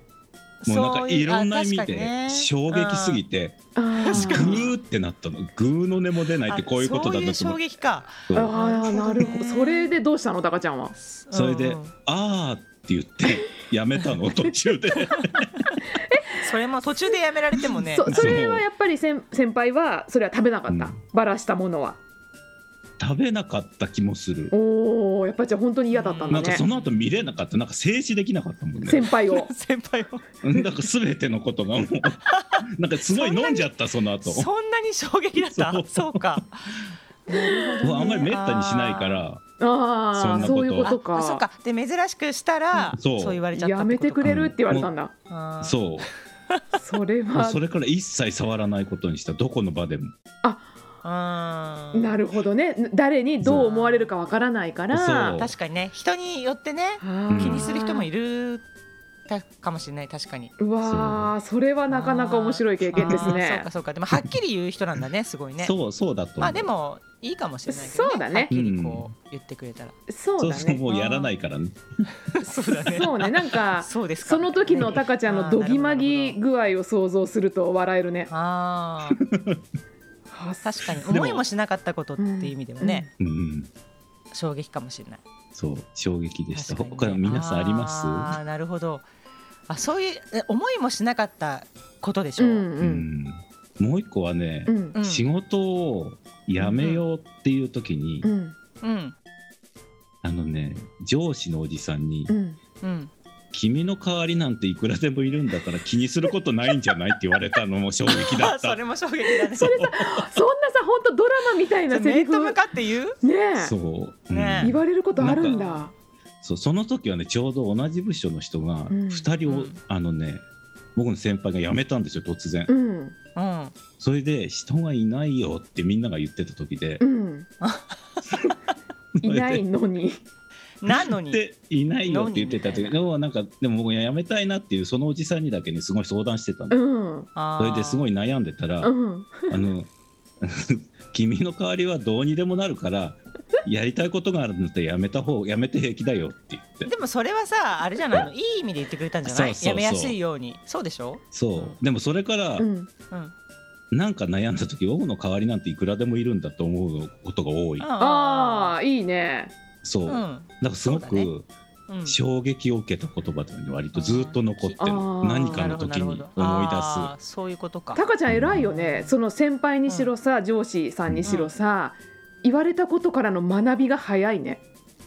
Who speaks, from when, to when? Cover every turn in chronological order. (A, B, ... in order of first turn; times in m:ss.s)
0:00.6-0:03.2 A
0:00.6-0:03.6 B
0:03.8-0:04.7 C
0:04.0-0:04.7 A
0:04.1-0:07.6 B
0:06.5-0:09.9 A
0:08.3-0:08.5 B
0:08.3-0:10.9 C
0:11.0-0:11.9 A
0:11.3-0:15.5 B
0:15.1-0:15.8 A
0:15.9-0:16.4 C
0:16.3-0:18.4 A
0:17.7-0:22.0 C
0:18.1-0:18.6 B
0:20.7-0:20.9 B
0:23.0-0:24.5 B
0:24.5-0:26.6 C
0:25.9-0:26.9 A
0:26.3-0:29.0 B
0:28.8-0:29.5 C
0:29.2-0:30.2 A
0:30.4-0:34.5 B
0:32.2-0:33.7 A
0:34.2-0:36.7 A
0:35.4-0:36.4 B
0:37.3-0:39.2 A
0:37.5-0:38.3 C
0:37.8-0:39.4 B
0:39.6-0:41.4 C
0:40.1-0:40.9 B
0:40.4-0:44.4 A
0:42.9-0:43.4 B
0:43.5-0:45.1 C
0:44.2-0:44.9 B
0:45.3-0:45.8 A
0:45.6-0:46.1 B
0:46.8-0:47.6 C
0:47.3-0:50.1 B
0:51.0-0:52.2 A
0:51.9-0:55.4 C
0:53.4-0:54.1 A
0:54.9-0:55.5 B
0:55.4-0:58.6 A
0:57.0-0:58.1 C
0:57.3-0:57.7 B
0:59.3-1:00.5 A
1:00.6-1:03.7 C
1:00.8-1:01.3 B
1:01.9-1:05.7 A
1:05.6-1:06.7 B
1:06.4-1:09.9 A
1:07.7-1:08.5 C
1:08.5-1:09.1 B
1:10.1-1:10.8 C
1:10.4-1:11.8 B
1:10.9-1:11.3 A
1:12.3-1:16.4 A
1:12.7-1:18.3 C
1:18.3-1:19.2 A
1:19.2-1:19.6 B
1:20.3-1:20.8 C
1:20.6-1:23.1 A
1:21.0-1:21.4 B
1:22.2-1:23.1 C
1:23.2-1:23.7 B
1:24.3-1:25.2 A
1:25.5-1:28.3 B
1:26.5-1:29.0 A
1:29.7-1:32.7 A
1:32.4-1:33.1 C
1:32.8-1:38.3 B
1:34.7-1:35.0 C
1:34.9-1:35.2 A
1:36.6-1:37.0 A
1:38.2-1:38.5 C
1:38.8-1:39.2 A
1:40.2-1:42.3 B
1:42.3-1:42.6 C
1:42.8-1:43.1 A
1:43.5-1:48.8 B
1:48.1-1:49.8 A
1:49.5-1:52.6 C
1:49.6-1:50.2 B
1:51.9-1:53.2 A
1:53.2-1:53.7 C
1:53.6-1:55.6 B
1:54.3-1:54.8 A
1:54.6-1:55.9 C
1:55.3-1:55.9 A
1:56.4-2:00.4 B
1:58.9-1:59.3 C
1:59.5-1:59.8 A
2:00.9-2:02.7 B
2:02.7-2:03.1 C
2:03.3-2:03.7 A
2:04.0-2:07.0 B
2:07.0-2:07.5 C
2:07.6-2:08.0 A
2:09.2-2:09.6 B
2:09.2-2:10.2 C
2:10.8-2:11.4 A
2:10.9-2:16.8 B
2:12.0-2:13.0 A
2:16.7-2:17.3 C
2:17.3-2:18.1 A
2:17.6-2:18.9 B
2:18.8-2:19.6 C
2:19.5-2:19.9 B
2:20.4-2:26.9 B
2:26.8-2:31.8 A
2:29.2-2:30.2 B
2:31.3-2:32.7 B
2:32.6-2:32.9 C
2:33.9-2:37.9 B
2:37.8-2:38.7 A
2:38.0-2:39.5 C
2:39.8-2:41.5 B
2:40.1-2:41.3 A
2:41.9-2:42.2 A
2:42.0-2:47.1 B
2:43.9-2:44.9 A
2:44.8-2:45.6 C
2:45.4-2:48.0 A
2:47.9-2:54.6 C
2:48.3-2:48.7 B
2:48.6-2:49.1 A
2:51.1-2:51.4 B
2:51.2-2:51.5 A